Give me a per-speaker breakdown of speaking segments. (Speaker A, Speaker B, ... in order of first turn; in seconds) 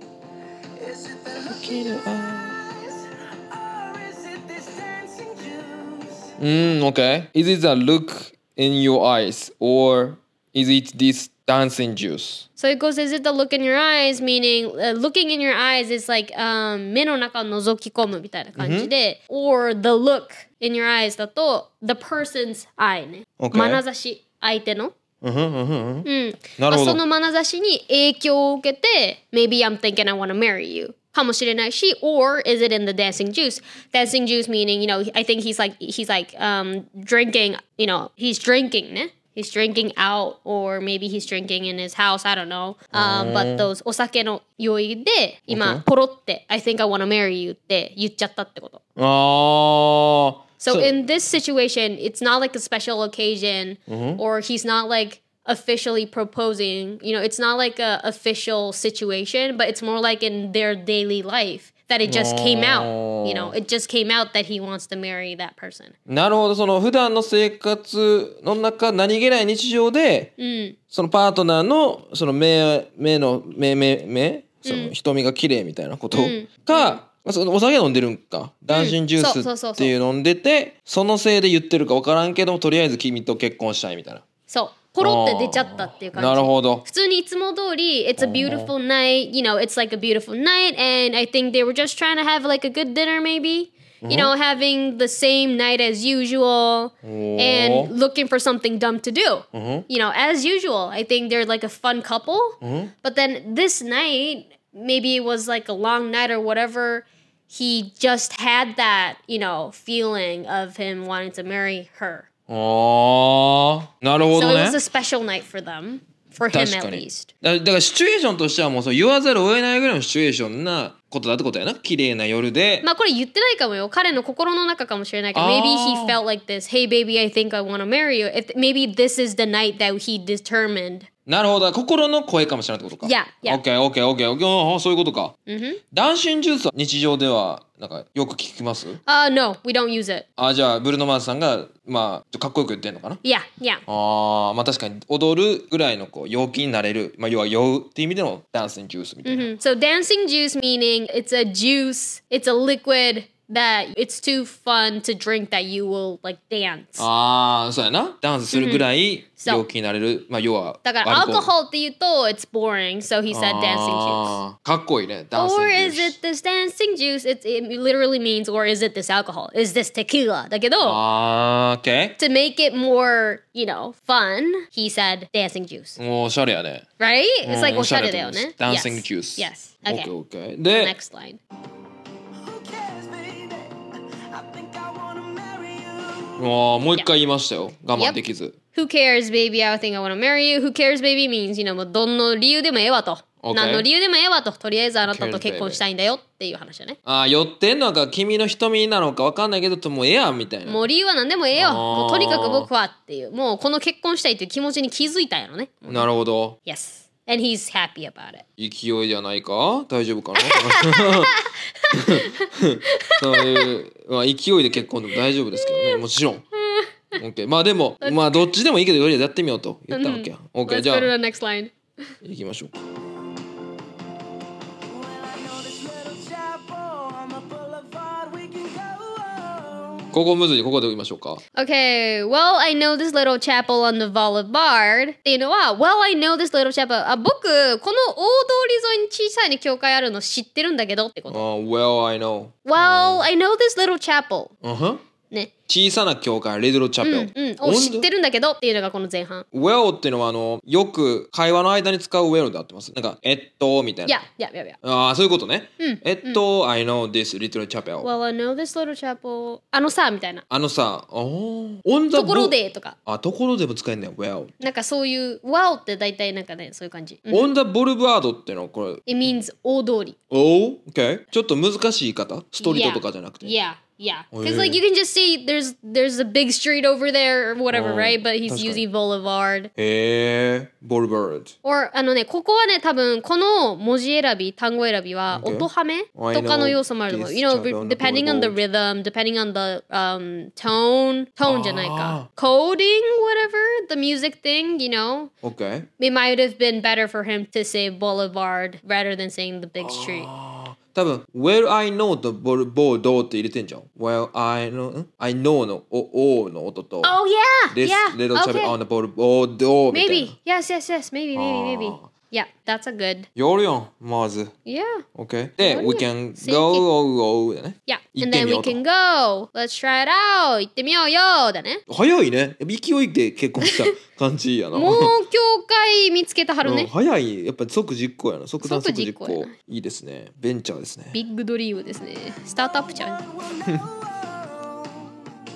Speaker A: 0.8-6.3, 182.4-186.5, 224.9-230.1, 332.6-335.2
Speaker B: 1.5-2.6, 6.4-12.5, 18.6-18.9, 23.4-23.8, 25.2-27.0, 42.9-43.7, 45.5-45.8, 49.0-50.9, 53.9-54.2, 62.0-63.5, 66.1-70.3, 70.9-84.2, 85.0-86.8, 88.2-88.7, 94.0-94.3, 97.0-97.9, 99.5-99.9, 102.6-102.9, 112.5-114.8, 116.5-122.9, 125.3-126.2, 131.3-135.3, 135.9-139.0, 140.4-143.2, 143.9-149.5, 157.0-161.5, 163.3-166.2, 170.8-172.2, 176.0-176.9, 177.4-180.9, 186.4-188.6, 193.4-193.9, 195.1-195.8, 197.1-200.8, 201.6-202.7, 205.9-206.6, 208.6-211.4, 211.9-216.4, 217.2-221.1, 222.2-222.7, 230.1-231.4, 241.3-243.3, 244.6-245.0, 245.7-248.1, 249.5-254.2, 254.8-258.1, 260.5-264.6, 267.3-269.1, 270.3-273.5, 274.3-274.8, 277.7-278.8, 279.8-281.6, 285.3-288.6, 291.5-292.3, 295.4-295.9, 299.8-307.1, 307.7-310.4, 311.4-312.1, 313.4-314.5, 315.1-318.8, 321.9-325.1, 326.6-331.2
Speaker C: 12.6-24.9, 26.1-48.8, 50.6-66.0, 70.4-70.8, 74.7-74.9, 76.1-77.0, 78.7-79.9, 84.5-112.3, 114.3-117.3, 122.8-131.1, 133.0-133.6, 135.5-135.8, 139.1-140.2, 143.2-143.8, 149.2-157.1, 158.5-158.9, 159.4-159.7, 160.8-164.4, 165.3-171.0, 172.2-176.0, 177.0-180.1, 180.7-181.4, 188.8-197.0, 200.7-206.1, 206.7-208.4, 210.4-213.7, 215.6-216.0, 216.6-217.2, 218.0-218.4, 219.9-221.7, 231.6-241.4, 242.7-244.5, 247.0-249.5, 254.1-254.8, 255.8-256.4, 258.0-260.4, 262.1-263.0, 264.6-267.5, 269.1-270.2, 272.6-279.7, 281.6-295.3, 296.0-300.3, 307.0-308.8, 309.9-313.3, 314.7-315.1, 315.6-316.9, 317.9-321.8, 323.6-323.9, 324.7-326.9, 328.6-329.5, 331.1-333.2